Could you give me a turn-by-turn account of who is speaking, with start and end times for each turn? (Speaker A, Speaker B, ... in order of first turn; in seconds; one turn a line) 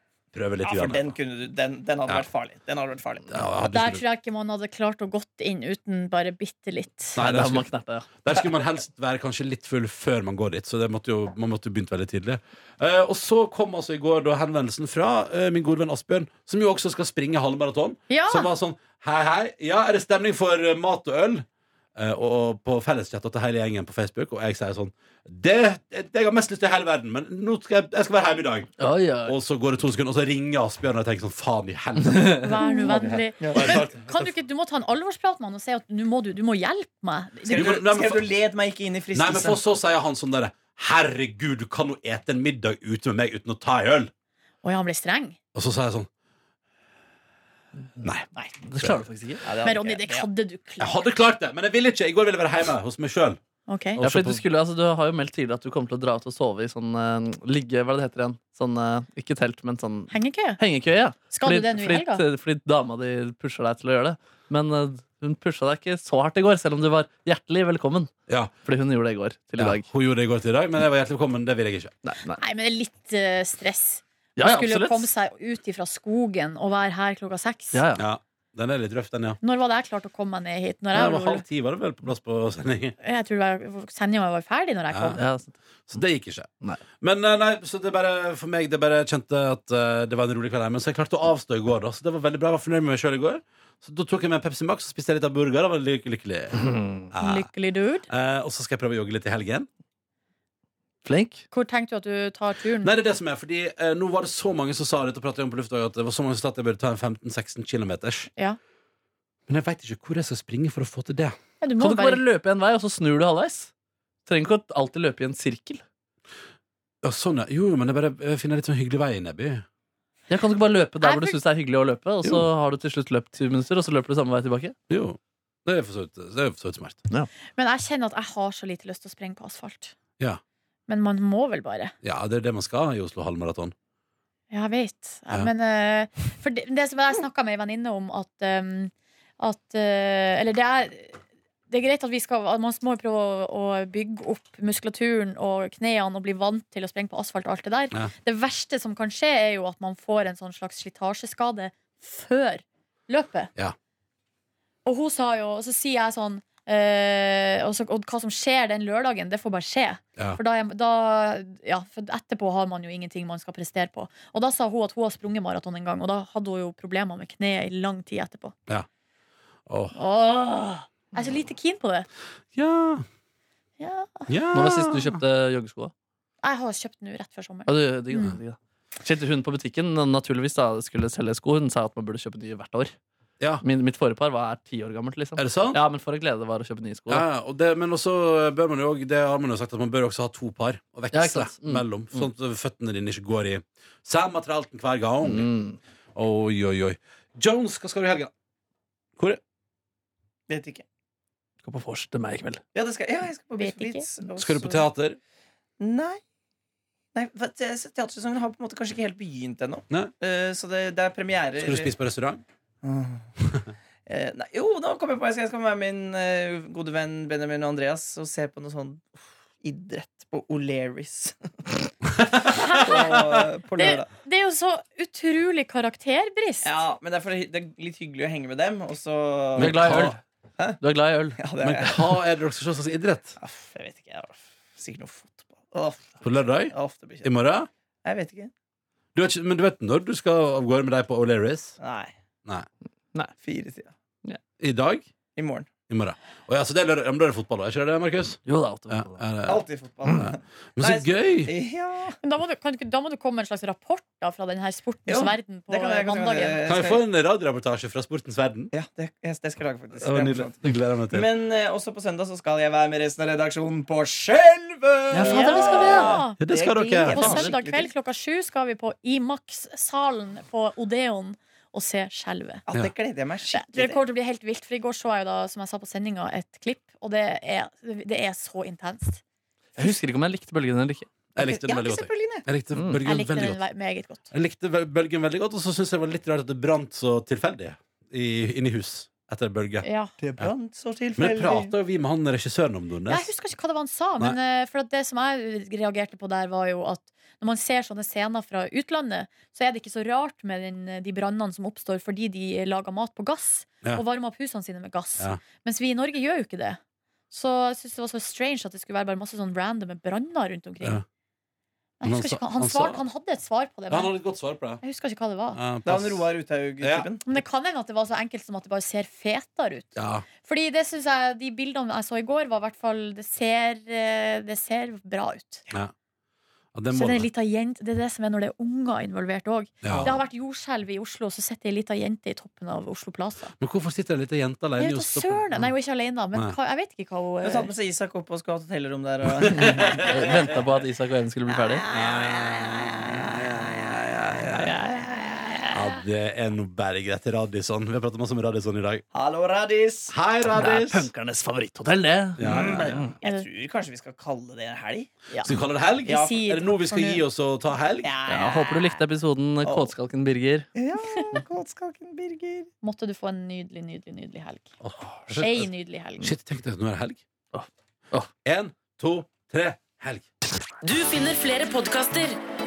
Speaker A: 0.3-1.1
Speaker B: 0.6-3.6
Speaker A: 3.3-4.0
Speaker C: 3.7-7.2
Speaker A: 7.1-7.7
Speaker D: 7.2-8.1
Speaker A: 8.2-21.4
Speaker C: 18.1-18.5
Speaker A: 22.0-34.3
Speaker D: 28.8-29.4
Speaker C: 32.4-37.7
Speaker B: 33.4-33.8
Speaker B: 37.5-39.6
Speaker A: 37.5-38.3
Speaker A: 39.1-44.1
Speaker C: 44.6-45.4
Speaker A: 45.5-46.1
Speaker A: 48.0-48.3
Speaker D: 48.7-49.5
Speaker B: 49.4-50.3
Speaker C: 49.6-51.0
Speaker A: 50.8-53.4
Speaker C: 53.7-54.0
Speaker A: 53.9-54.4
Speaker D: 54.0-68.1
Speaker C: 60.1-60.6
Speaker C: 61.3-62.2
Speaker A: 68.3-68.5
Speaker D: 68.6-69.9
Speaker A: 69.6-71.9
Speaker D: 72.0-72.4
Speaker C: 72.3-77.8
Speaker D: 74.4-75.1
Speaker D: 77.7-78.0
Speaker A: 78.0-79.4
Speaker C: 79.4-81.5
Speaker A: 80.9-83.0
Speaker C: 83.0-85.2
Speaker A: 84.9-85.2
Speaker D: 85.1-85.6
Speaker A: 85.9-86.5
Speaker A: 87.0-97.5
Speaker D: 96.6-97.0
Speaker C: 97.2-98.1
Speaker A: 98.1-99.7
Speaker D: 101.0-101.4
Speaker C: 101.5-102.9
Speaker A: 102.8-108.3
Speaker A: 109.5-111.4
Speaker C: 111.6-112.2
Speaker D: 111.8-113.7
Speaker D: 114.2-115.8
Speaker A: 117.0-119.6
Speaker D: 120.3-124.8
Speaker C: 121.0-121.4
Speaker A: 124.9-127.0
Speaker C: 127.6-129.9
Speaker C: 130.9-131.9
Speaker A: 132.0-133.7
Speaker C: 134.5-153.5
Speaker C: 154.8-168.6
Speaker A: 169.7-169.9
Speaker C: 169.9-172.1
Speaker A: 172.6-173.0
Speaker C: 173.8-174.3
Speaker A: 174.3-175.2
Speaker D: 174.5-175.9
Speaker C: 176.4-178.4
Speaker D: 177.7-182.9
Speaker D: 183.6-187.2
Speaker A: 185.4-185.8
Speaker A: 187.1-195.5
Speaker D: 191.1-192.3
Speaker D: 195.2-195.8
Speaker A: 196.1-198.3
Speaker B: 200.5-200.8
Speaker D: 201.6-202.6
Speaker B: 202.7-204.9
Speaker C: 203.6-204.1
Speaker A: 204.4-205.2
Speaker B: 205.8-206.2
Speaker B: 207.1-211.9
Speaker A: 211.6-212.4
Speaker B: 212.8-213.3
Speaker B: 214.1-221.9
Speaker C: 222.5-223.2
Speaker B: 222.5-224.1
Speaker C: 223.8-226.8
Speaker B: 226.6-230.8
Speaker D: 229.5-230.2
Speaker A: 229.6-230.2
Speaker D: 230.8-231.4
Speaker B: 231.4-232.2
Speaker A: 231.6-233.4
Speaker B: 233.4-237.3
Speaker A: 236.2-237.7
Speaker B: 238.0-238.5
Speaker A: 239.2-241.8
Speaker B: 241.8-242.1
Speaker B: 243.4-243.9
Speaker A: 244.6-245.1
Speaker B: 245.4-245.7
Speaker A: 245.9-251.5
Speaker D: 248.5-249.2
Speaker B: 249.5-252.2
Speaker C: 252.2-256.6
Speaker B: 255.1-257.0
Speaker A: 256.7-258.7
Speaker B: 258.7-267.9
Speaker A: 260.0-261.3
Speaker D: 265.1-266.2
Speaker C: 265.2-266.4
Speaker A: 265.2-267.5
Speaker C: 267.0-272.7
Speaker B: 272.7-274.0
Speaker C: 273.5-279.2
Speaker D: 279.8-281.1
Speaker A: 281.4-283.6
Speaker B: 281.4-282.4
Speaker D: 282.7-283.0
Speaker C: 283.0-284.3
Speaker A: 284.3-289.9
Speaker C: 289.8-290.1
Speaker B: 290.2-291.7
Speaker A: 291.2-293.3
Speaker C: 293.1-306.8
Speaker C: 307.3-311.0
Speaker C: 312.0-314.1
Speaker A: 312.0-313.0
Speaker A: 313.9-314.8
Speaker C: 314.8-315.6
Speaker A: 315.5-316.3
Speaker B: 315.9-317.2
Speaker A: 316.8-317.1
Speaker C: 317.2-325.6
Speaker A: 320.0-320.3
Speaker A: 326.7-327.3
Speaker C: 326.9-333.5
Speaker A: 329.8-330.2
Speaker A: 333.6-335.7
Speaker C: 334.8-337.7
Speaker B: 337.4-340.1
Speaker A: 339.5-340.4
Speaker D: 339.5-341.9
Speaker B: 341.9-343.5
Speaker A: 341.9-342.6
Speaker B: 344.3-345.8
Speaker A: 344.4-344.6
Speaker A: 345.7-349.0
Speaker B: 349.1-350.1
Speaker A: 350.1-351.1
Speaker D: 350.5-353.1
Speaker A: 352.4-352.9
Speaker B: 352.4-355.1
Speaker C: 355.3-356.8
Speaker A: 355.4-358.1
Speaker B: 356.1-357.2
Speaker B: 358.0-359.0
Speaker D: 358.3-360.7
Speaker B: 359.6-359.9
Speaker B: 360.8-362.7
Speaker C: 361.0-361.4
Speaker C: 362.8-364.7
Speaker A: 364.8-367.2
Speaker C: 365.4-366.3
Speaker D: 367.5-368.3
Speaker A: 368.4-370.2